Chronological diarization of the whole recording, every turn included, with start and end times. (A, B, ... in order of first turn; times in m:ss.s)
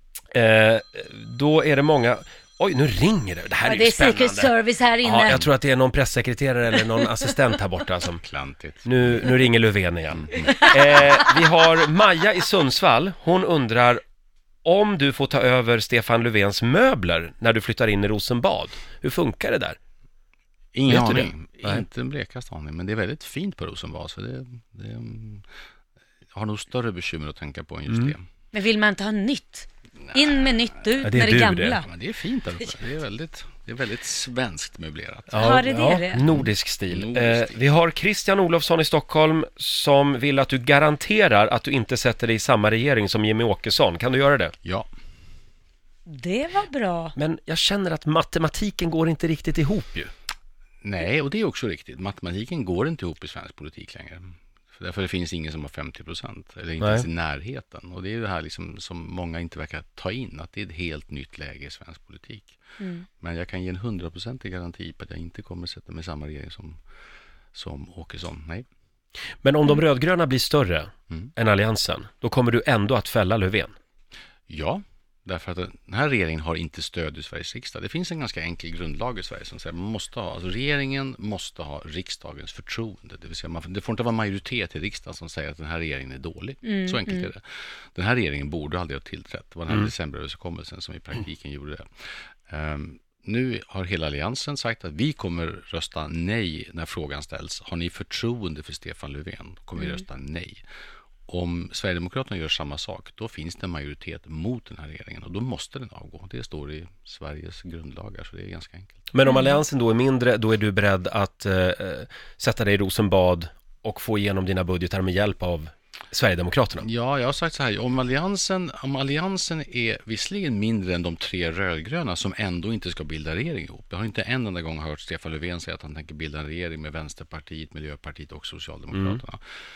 0:00.3-0:04.5 A
0:03.6-0:05.5 B
0:05.0-0:08.2 A
0:08.2-0:09.0 C
0:08.8-0:14.0 A
0:10.2-0:10.6 C
0:14.6-0:19.8 A
0:20.7-0:25.5 C
0:20.9-0:21.8 A
0:26.3-0:28.2 C
0:28.5-0:31.9 B
0:31.0-0:31.8 A
0:31.8-0:35.7 C
0:35.3-0:44.5 A
0:35.4-0:36.3 B
0:36.3-0:37.6 C
0:46.1-0:47.2 B
0:47.2-0:50.1 A
0:50.8-1:02.6 C
0:56.8-0:57.1 A
1:02.8-1:03.1 B
1:03.2-1:06.8 C
1:07.5-1:08.6 C
1:09.4-1:13.8 A
1:14.5-1:27.4 C
1:26.6-1:27.3 B
1:28.0-1:31.8 C
1:32.5-1:40.6 C
1:41.3-1:49.1 C
1:49.1-1:56.9 A
1:49.3-1:49.6 B
1:56.8-2:09.4 C
2:08.9-2:09.2 A